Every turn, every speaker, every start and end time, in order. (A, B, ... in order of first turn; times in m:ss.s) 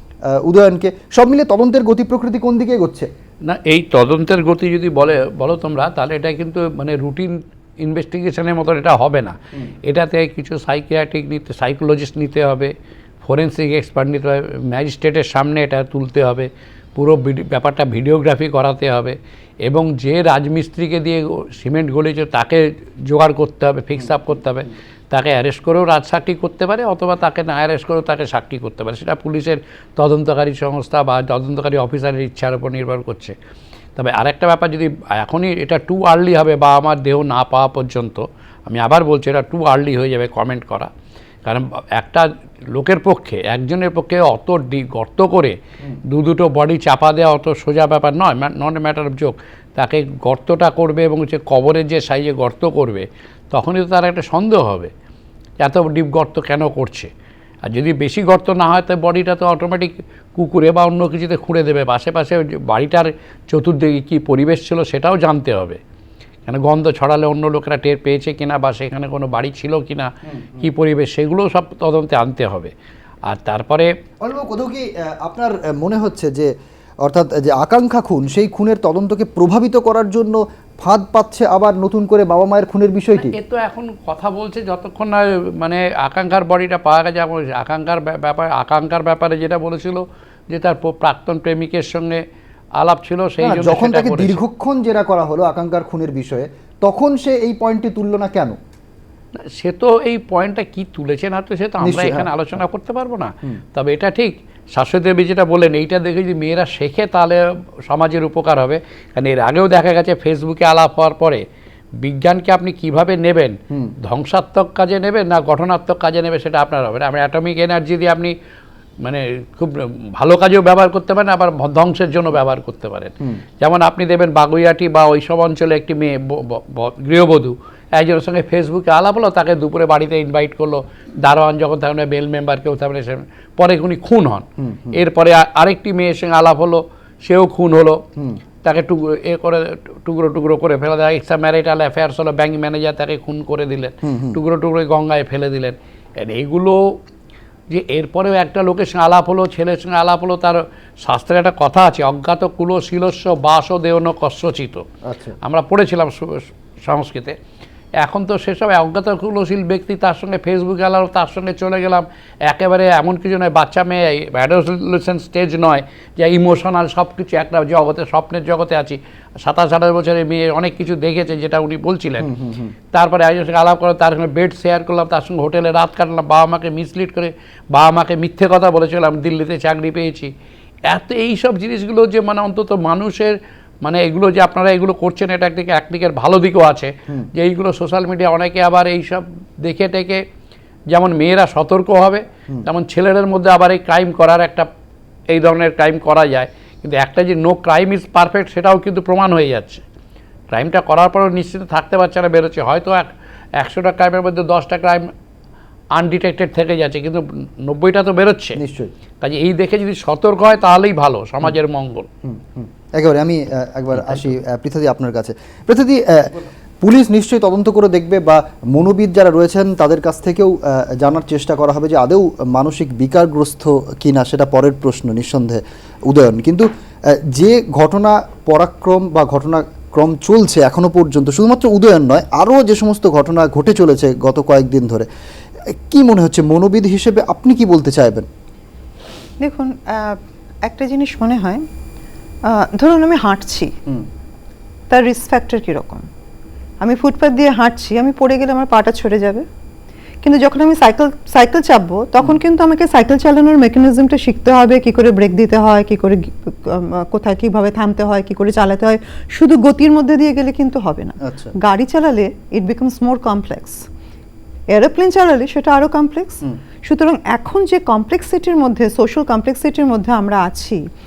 0:00.3-0:03.1 A
0:03.5-0:12.7 B
0:13.2-0:33.4 B
0:34.0-0:40.9 B
0:41.4-0:45.6 B
0:46.1-0:54.9 B
0:55.6-0:57.1 B
0:57.7-1:05.8 B
1:06.5-1:12.7 B
1:10.3-1:10.6 A
1:13.3-1:13.9 B
1:14.2-1:16.5 A
1:17.0-1:23.3 A
1:23.2-1:32.2 B
1:32.8-1:34.4 B
1:33.4-1:38.6 A
1:39.6-1:51.4 B
1:41.8-1:42.3 A
1:52.0-1:58.3 B
1:59.0-2:18.0 B
2:14.6-2:15.0 A
2:18.6-2:26.8 B
2:24.0-2:24.4 A
2:27.7-2:34.8 B
2:35.0-2:35.4 A
2:35.4-2:37.4 B
2:38.0-2:52.3 B
2:52.2-2:52.7 A
2:52.9-3:00.3 B
3:00.9-3:10.2 B
3:10.9-3:14.7 B
3:15.3-3:19.8 B
3:20.5-3:25.1 B
3:25.9-3:28.6 B
3:28.6-3:28.9 A
3:29.2-3:32.1 B
3:32.2-3:46.7 A
3:47.3-3:55.1 A
3:55.9-3:58.3 A
3:59.4-4:01.6 C
4:02.5-4:03.7 C
4:04.9-4:06.0 C
4:06.8-4:09.4 C
4:10.2-4:23.8 C
4:21.2-4:21.5 A
4:24.7-4:30.8 C